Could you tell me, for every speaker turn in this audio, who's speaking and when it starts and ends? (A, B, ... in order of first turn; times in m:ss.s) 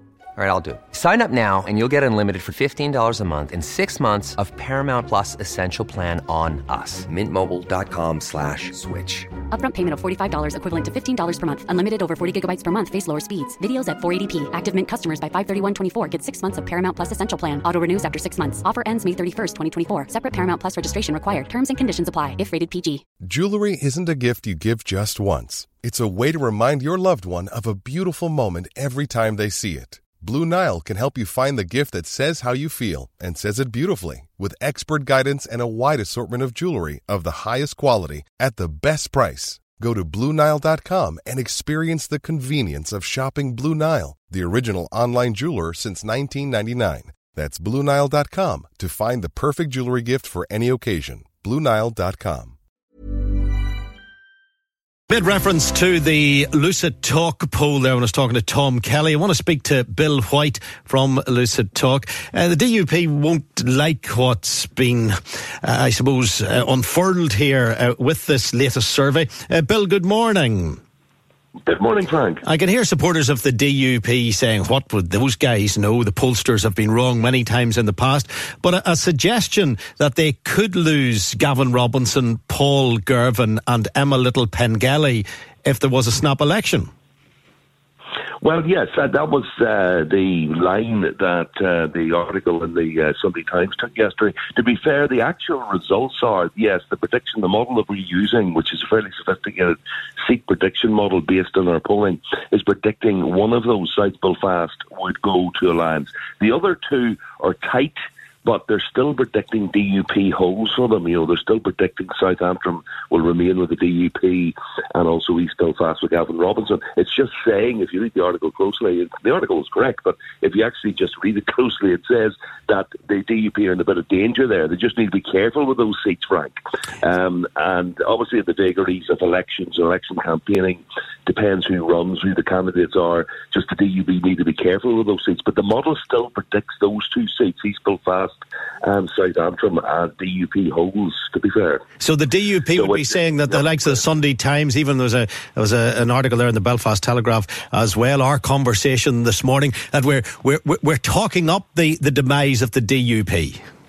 0:00.4-0:09.3 A
0:09.5-0:23.0 B
0:23.2-0:52.5 C
0:55.1-1:10.8 D
1:11.6-1:12.4 E
1:12.4-1:26.9 D
1:28.4-2:21.8 E
2:22.0-2:33.6 D
2:22.8-2:23.6 E